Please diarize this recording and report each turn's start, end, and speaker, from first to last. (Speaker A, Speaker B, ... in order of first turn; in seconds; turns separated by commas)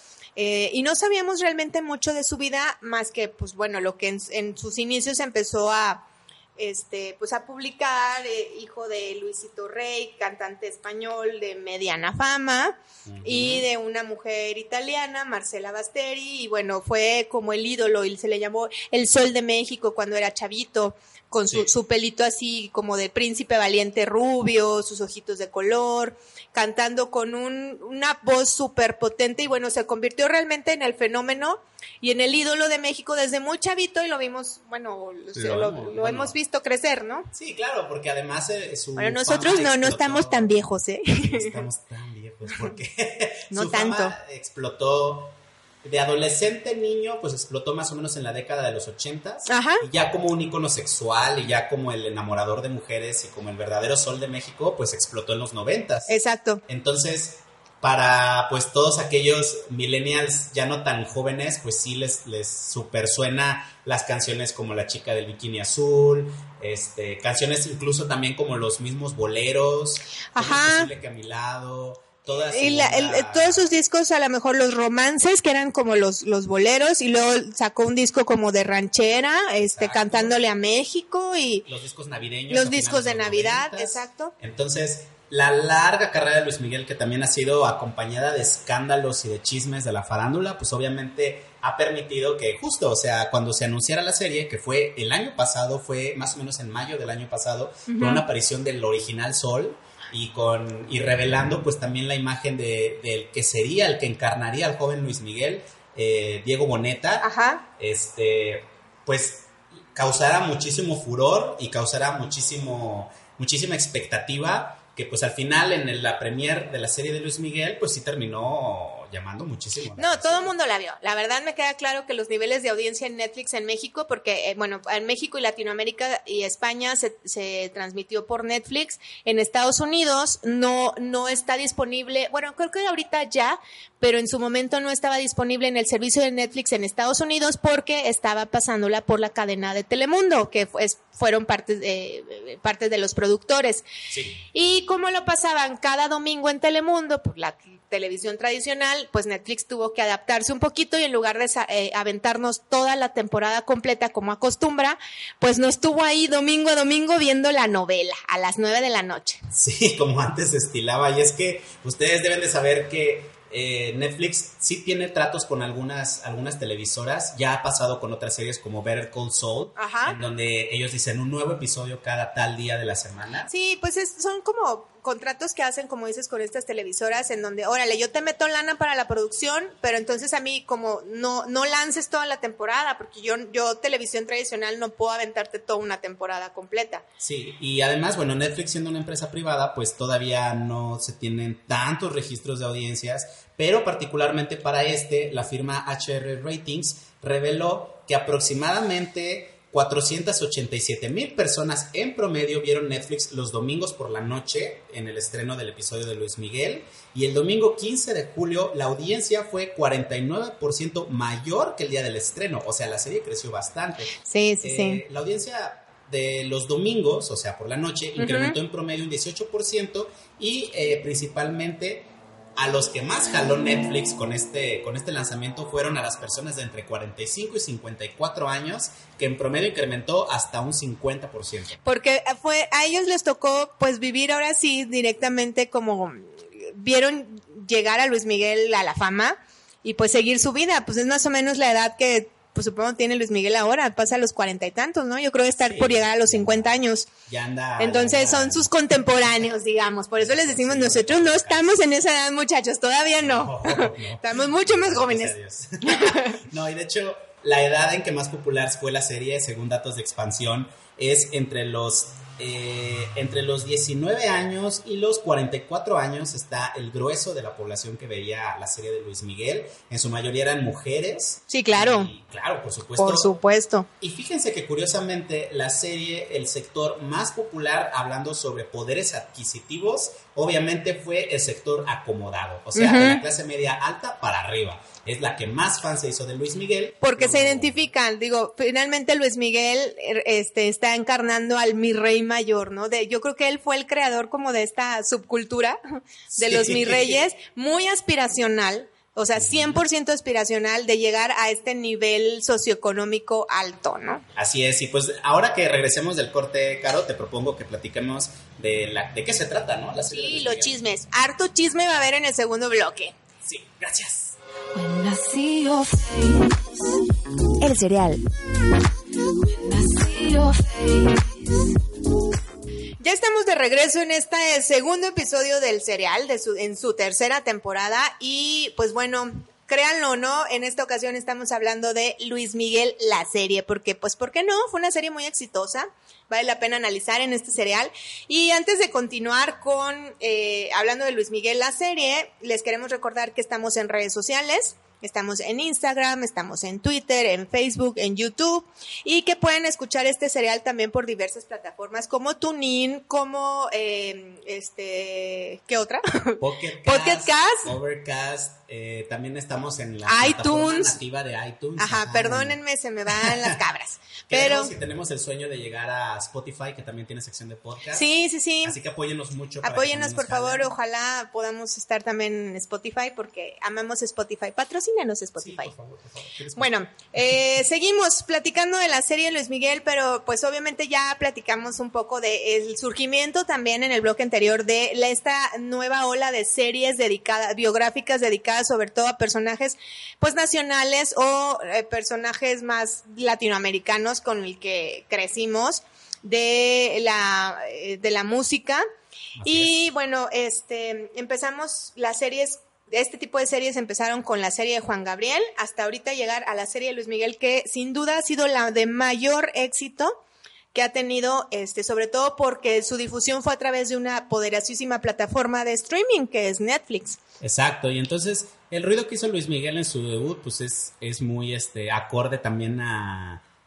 Speaker A: 0.4-6.0, Speaker A: 6.6-37.3, Speaker B: 13.1-13.7, Speaker B: 35.3-36.3, Speaker B: 37.3-56.1, Speaker A: 39.0-41.6, Speaker A: 43.5-44.2, Speaker A: 49.5-49.8, Speaker A: 56.1-56.6, Speaker B: 56.7-73.7, Speaker A: 70.3-70.9, Speaker A: 72.5-81.7, Speaker B: 79.6-80.4, Speaker B: 81.7-120.5, Speaker A: 82.5-84.3, Speaker A: 97.9-98.2, Speaker A: 107.2-107.6, Speaker A: 120.0-143.8, Speaker B: 144.1-144.4, Speaker A: 144.5-159.4, Speaker B: 159.5-173.5, Speaker A: 169.8-170.2, Speaker A: 173.5-187.0, Speaker B: 187.2-231.8, Speaker A: 214.2-215.0, Speaker A: 218.2-218.6, Speaker A: 231.8-247.1, Speaker B: 245.6-248.7, Speaker A: 247.8-256.4, Speaker B: 250.2-251.8, Speaker B: 253.2-273.3, Speaker A: 271.5-272.1, Speaker A: 273.0-273.9, Speaker B: 274.0-287.8, Speaker A: 282.8-283.2, Speaker A: 287.0-295.8, Speaker B: 296.3-297.2, Speaker A: 296.3-304.2, Speaker B: 299.3-299.8, Speaker B: 304.4-310.8, Speaker A: 310.1-313.2, Speaker B: 313.4-314.4, Speaker C: 314.7-316.9, Speaker C: 317.6-318.2, Speaker C: 319.2-321.7, Speaker A: 323.0-357.7, Speaker B: 356.4-363.6, Speaker A: 360.1-361.0, Speaker A: 361.8-364.7, Speaker B: 364.3-368.1, Speaker A: 367.9-368.8, Speaker B: 368.6-370.7, Speaker A: 369.6-375.7, Speaker B: 375.4-376.7, Speaker A: 376.6-398.8, Speaker B: 399.4-399.8, Speaker A: 399.4-410.2, Speaker A: 410.7-417.2, Speaker B: 417.4-423.4